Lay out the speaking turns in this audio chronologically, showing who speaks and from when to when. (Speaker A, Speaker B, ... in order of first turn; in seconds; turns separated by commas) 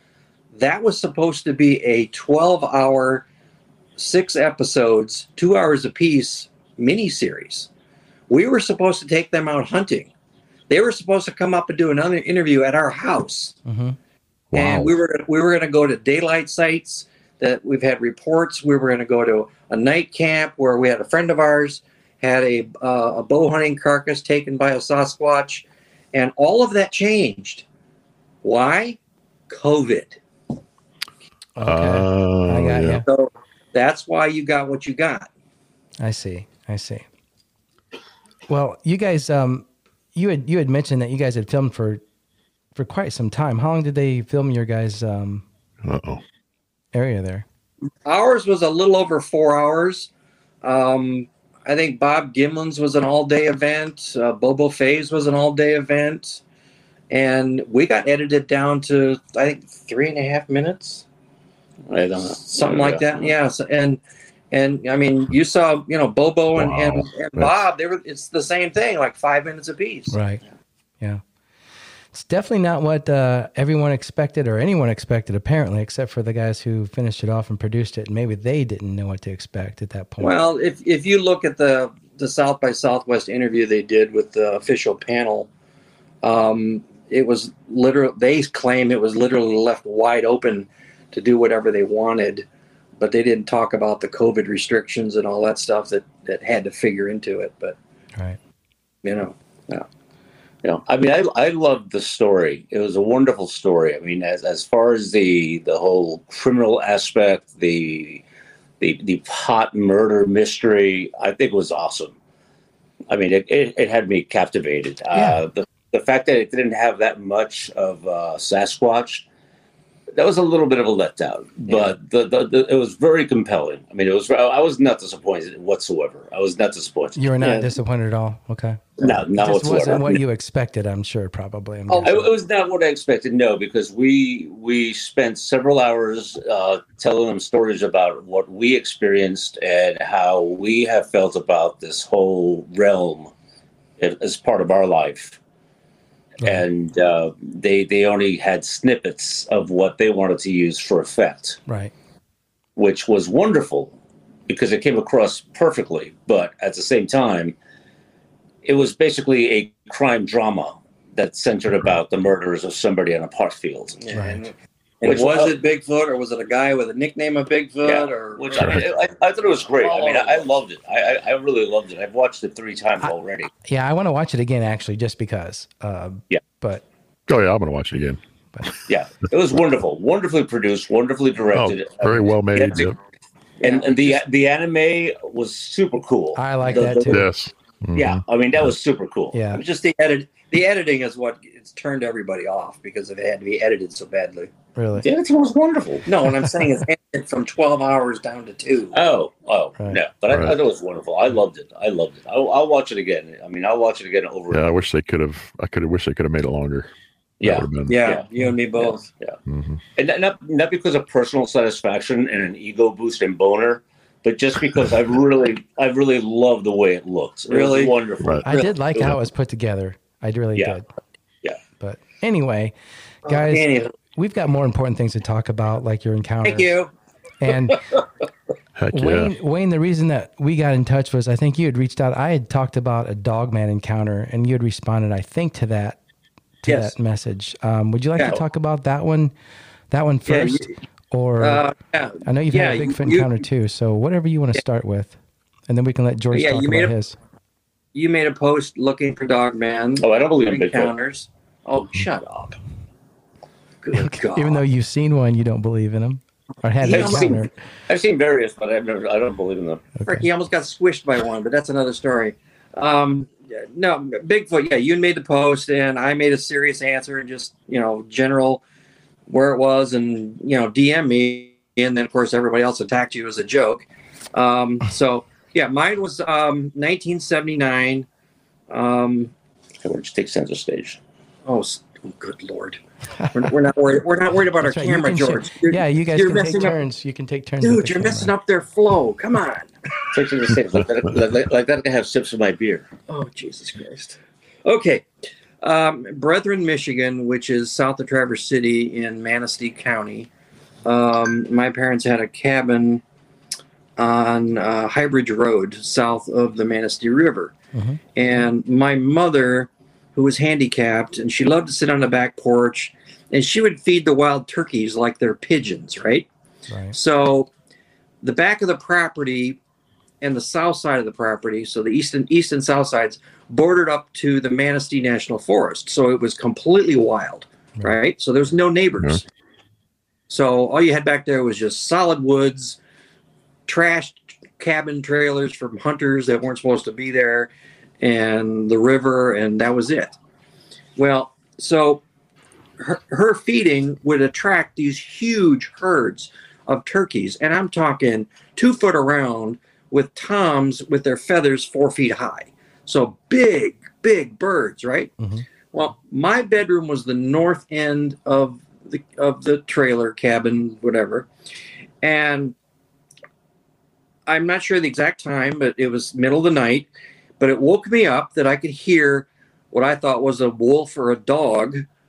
Speaker A: 0.5-3.2, Speaker A: 4.0-7.7, Speaker A: 8.3-10.1, Speaker A: 10.7-13.6, Speaker B: 13.7-14.0, Speaker C: 14.5-14.9, Speaker A: 14.5-27.6, Speaker A: 28.4-30.2, Speaker B: 31.6-33.0, Speaker C: 31.6-33.0, Speaker A: 33.0-35.3, Speaker B: 36.0-37.0, Speaker B: 38.5-42.0, Speaker B: 42.7-45.4, Speaker C: 45.8-46.2, Speaker B: 46.9-47.4, Speaker A: 48.0-50.1, Speaker A: 50.6-56.4, Speaker A: 57.1-61.0, Speaker D: 61.9-63.3, Speaker A: 62.4-64.0, Speaker A: 64.5-70.2, Speaker C: 66.5-67.5, Speaker B: 70.1-70.4, Speaker B: 72.1-80.3, Speaker A: 80.2-85.5, Speaker A: 86.2-92.4, Speaker A: 93.0-97.8, Speaker A: 99.0-99.8, Speaker D: 100.6-108.2, Speaker D: 108.8-112.1, Speaker D: 113.1-119.2, Speaker D: 120.2-127.7, Speaker B: 127.2-132.3, Speaker D: 129.0-130.2, Speaker A: 131.9-132.2, Speaker D: 132.0-143.3, Speaker D: 144.0-145.4, Speaker D: 146.4-151.6, Speaker B: 151.7-151.9, Speaker D: 152.8-153.9, Speaker D: 154.5-157.5, Speaker D: 158.6-164.0, Speaker A: 164.0-168.9, Speaker B: 164.1-164.4, Speaker D: 165.0-165.5, Speaker D: 167.8-173.5, Speaker C: 168.6-168.8, Speaker A: 169.8-170.6, Speaker B: 173.7-176.8, Speaker C: 177.3-178.2, Speaker D: 178.9-182.9, Speaker C: 181.5-182.9, Speaker D: 183.6-187.3, Speaker A: 183.6-184.2, Speaker B: 186.3-187.2, Speaker C: 187.1-188.2, Speaker D: 187.9-189.4, Speaker B: 189.3-189.6, Speaker A: 189.5-194.5, Speaker B: 194.8-195.1, Speaker D: 195.0-196.1, Speaker A: 196.1-199.0, Speaker D: 198.9-204.7, Speaker C: 200.3-200.6, Speaker C: 204.5-206.9, Speaker D: 207.4-209.4, Speaker C: 207.4-208.0, Speaker A: 207.9-209.0, Speaker C: 209.5-209.8, Speaker D: 209.9-219.2, Speaker A: 217.5-217.9, Speaker B: 218.4-220.8, Speaker B: 221.8-222.7, Speaker B: 223.2-226.8, Speaker A: 223.3-223.9, Speaker A: 226.4-226.9, Speaker B: 227.4-227.8, Speaker C: 228.8-229.3, Speaker B: 228.9-236.0, Speaker B: 236.6-239.3, Speaker B: 239.9-241.6, Speaker A: 240.3-240.7, Speaker A: 241.4-243.3, Speaker B: 242.2-245.1, Speaker B: 245.7-247.2, Speaker A: 246.3-246.9, Speaker A: 247.9-252.6, Speaker D: 250.0-250.9, Speaker A: 253.8-254.6, Speaker B: 253.9-257.5, Speaker A: 256.8-257.4, Speaker D: 256.9-259.9, Speaker B: 260.0-260.2, Speaker A: 260.1-268.6, Speaker A: 269.3-278.1, Speaker A: 278.7-279.3, Speaker D: 279.8-281.0, Speaker A: 281.4-282.8, Speaker A: 283.3-286.8, Speaker B: 284.6-288.3, Speaker A: 287.6-290.1, Speaker D: 290.1-292.9, Speaker A: 293.1-295.1, Speaker A: 295.6-300.3, Speaker A: 300.8-303.0, Speaker A: 304.0-307.5, Speaker B: 307.7-308.0, Speaker A: 308.1-316.3, Speaker B: 316.7-316.9, Speaker A: 316.9-317.5, Speaker A: 318.2-319.6, Speaker A: 320.2-329.2, Speaker A: 330.3-332.8, Speaker A: 333.7-340.2, Speaker A: 340.9-342.0, Speaker A: 342.8-355.1, Speaker A: 355.7-361.3, Speaker A: 362.0-362.5, Speaker A: 364.3-366.9, Speaker A: 367.4-371.8